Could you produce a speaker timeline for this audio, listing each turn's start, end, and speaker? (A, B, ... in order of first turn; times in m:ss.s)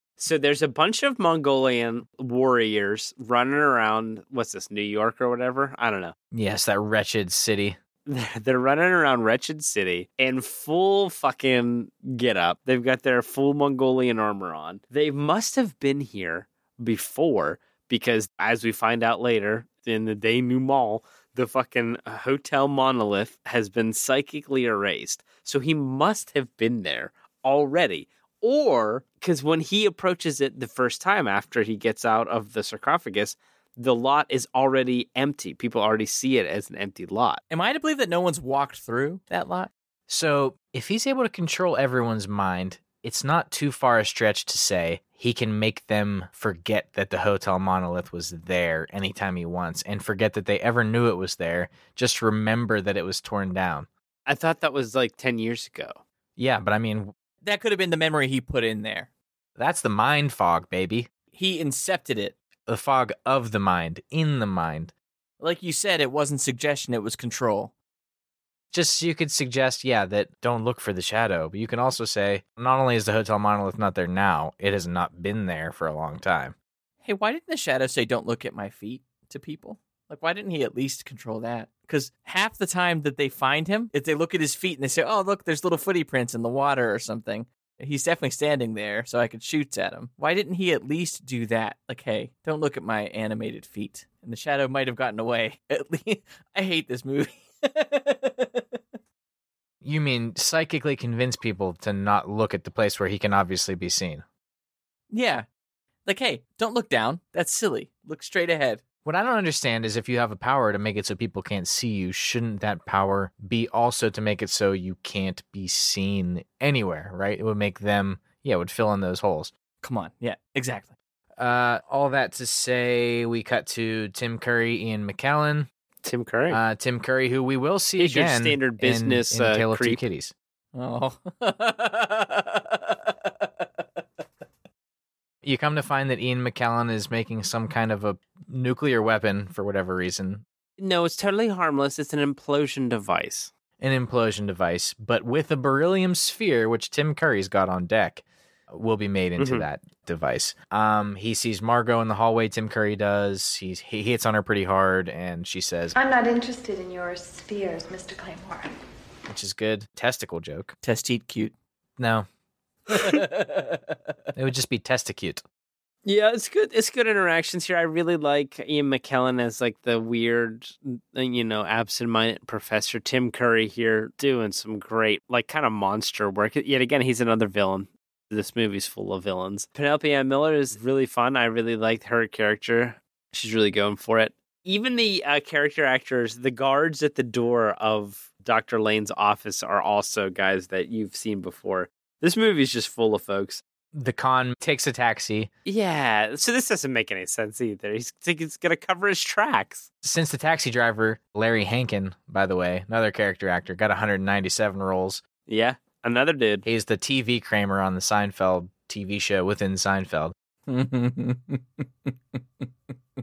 0:00.2-0:06.1 A
0:06.3-0:07.8 B
0:08.1-0:37.4 A
0:37.5-0:39.7 C
0:40.1-0:53.9 B
0:54.3-0:56.0 A
0:56.4-0:57.1 B
0:57.4-0:59.1 C
0:59.6-1:01.1 B
1:01.3-1:02.3 C
1:02.7-1:04.9 B
1:05.4-1:07.7 C
1:08.7-1:16.5 B
1:17.0-1:38.8 C
1:39.8-1:44.2 B
1:45.1-1:45.4 C
1:46.0-1:48.8 C
1:49.0-1:59.5 B
1:59.8-2:00.9 C
2:01.4-2:05.7 B
2:06.0-2:06.6 A
2:06.5-2:10.3 B
2:08.0-2:10.0 A
2:10.7-2:13.5 C
2:15.4-2:20.4 B
2:20.8-2:23.5 A
2:23.8-2:35.9 B
2:29.4-2:29.6 A
2:35.9-2:38.7 D
2:39.3-2:40.7 B
2:40.8-2:41.5 C
2:42.0-2:42.3 B
2:42.9-2:44.0 C
2:44.3-2:45.4 B
2:46.0-3:13.6 A
3:13.9-3:15.5 B
3:15.6-3:19.9 A
3:20.0-3:25.2 B
3:25.5-3:26.6 A
3:26.6-3:30.3 B
3:30.7-3:32.6 C